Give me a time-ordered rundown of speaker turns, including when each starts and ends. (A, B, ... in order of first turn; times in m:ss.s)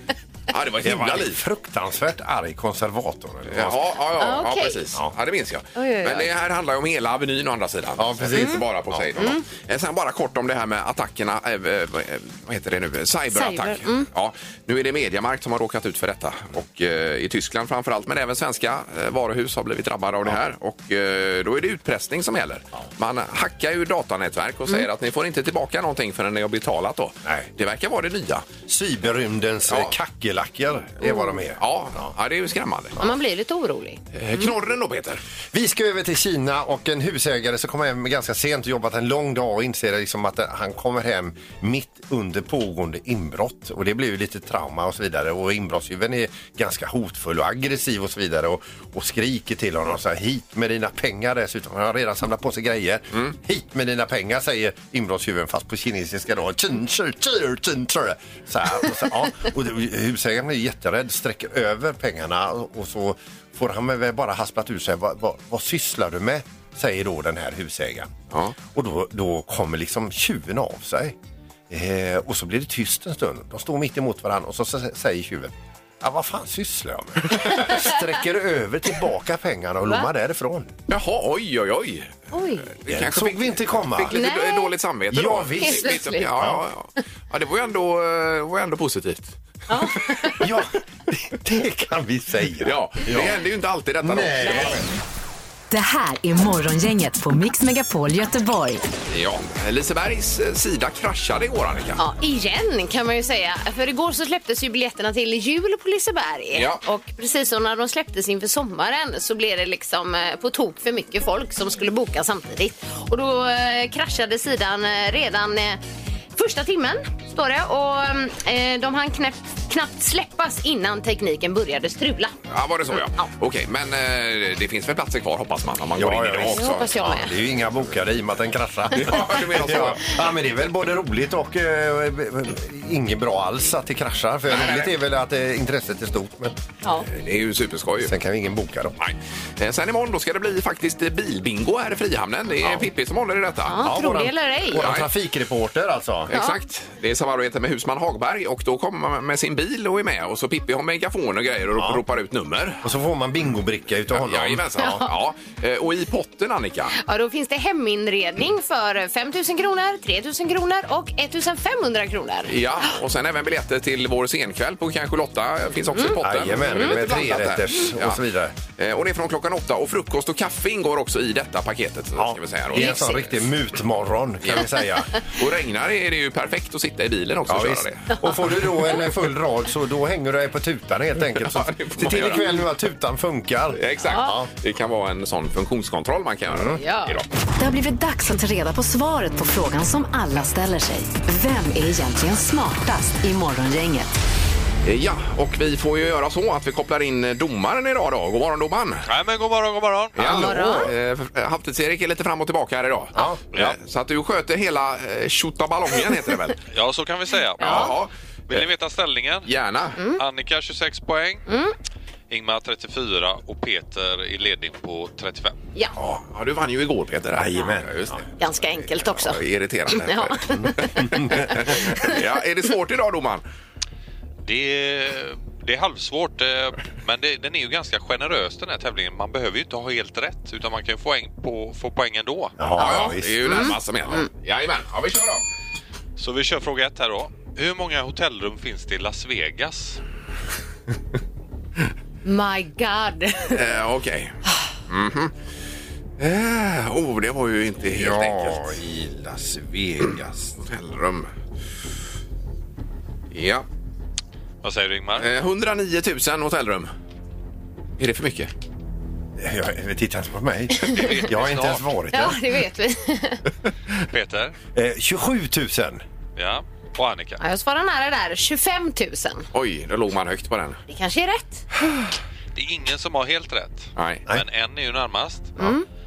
0:00.5-0:01.4 A
0:00.8-0:03.9 B
0:03.5-0:28.4 A
0:04.2-0:04.9 C
0:05.7-0:06.3 C
0:08.0-0:09.2 B
0:08.3-0:08.6 C
0:09.2-0:09.4 C
0:13.3-0:14.1 C
0:28.7-0:32.1 B
0:29.7-0:29.9 A
0:31.0-0:31.3 C
0:31.6-0:33.0 A
0:33.0-0:34.4 C
0:34.1-0:35.2 A
0:35.5-1:08.1 B
1:08.3-1:08.6 A
1:08.7-1:11.2 B
1:11.7-1:20.7 B
1:17.5-1:18.0 C
1:20.9-1:22.1 A
1:22.3-1:22.7 C
1:22.8-1:29.4 A
1:22.9-1:24.2 B
1:24.1-1:24.7 C
1:25.1-1:26.6 B
1:25.6-1:26.3 C
1:29.7-1:30.4 C
1:30.4-1:33.4 B
1:32.6-1:34.9 A
1:34.0-1:34.8 B
1:35.7-1:38.8 D
1:39.1-1:42.0 A
1:42.0-1:55.8 C
1:46.5-1:46.8 A
1:56.3-2:02.4 C
2:02.5-2:07.0 A
2:02.9-2:03.3 C
2:06.0-2:16.6 B
2:06.5-2:07.3 C
2:08.9-2:10.2 A
2:14.5-2:14.9 A
2:17.1-2:18.1 A
2:18.0-2:19.0 B
2:19.0-2:23.8 A
2:22.6-2:22.9 B
2:23.7-2:24.8 C
2:23.8-2:26.3 B
2:24.8-2:25.1 A
2:26.3-2:32.9 A
2:26.3-2:26.6 C
2:31.8-2:32.0 B
2:32.8-2:35.0 B
2:34.1-2:36.9 A
2:34.8-2:35.0 C
2:37.0-2:42.5 C
2:42.5-2:48.2 A
2:45.9-2:46.2 C
2:46.2-2:48.5 B
2:46.7-2:47.0 C
2:48.8-2:53.2 A
2:52.2-2:55.1 B
2:52.7-2:53.3 C
2:55.2-2:58.1 A
2:57.5-3:04.5 B
3:01.3-3:02.5 A
3:03.8-3:07.2 A
3:04.1-3:04.4 C
3:06.5-3:06.8 B
3:06.8-3:07.2 C
3:07.6-3:14.1 D
3:14.8-3:19.0 A
3:19.1-3:20.1 E
3:20.2-3:20.9 B
3:20.2-3:26.6 A
3:20.2-3:20.9 C
3:23.1-3:23.4 B
3:26.7-3:28.0 E
3:27.6-3:27.9 C
3:27.6-3:28.6 A
3:28.5-3:29.5 E
3:29.5-3:30.0 A
3:30.1-3:31.4 E
3:31.5-3:31.7 C
3:32.3-3:35.5 E
3:36.0-3:38.2 A
3:37.3-3:38.2 B
3:38.4-3:42.1 C
3:39.0-3:43.4 A
3:40.5-3:41.5 B
3:44.4-3:52.5 E
3:52.6-3:53.7 B
3:52.8-3:55.4 A
3:53.4-3:54.2 C
3:56.2-4:00.0 E
4:02.2-4:03.6 C
4:03.5-4:04.4 A
4:04.9-4:05.3 A
4:06.2-4:08.7 A
4:07.8-4:10.6 B
4:10.6-4:11.3 A
4:13.3-4:13.6 A
4:14.6-4:15.3 E
4:15.2-4:16.9 A
4:18.0-4:18.5 A
4:19.4-4:22.4 B
4:20.8-4:21.1 C
4:20.9-4:21.8 E
4:22.1-4:23.4 C
4:24.1-4:24.5 E
4:24.7-4:26.0 B
4:26.4-4:27.4 E
4:27.4-4:29.5 C
4:29.5-4:30.8 A
4:30.9-4:31.6 C
4:32.5-4:35.6 E
4:34.0-4:34.2 A
4:35.6-4:35.8 C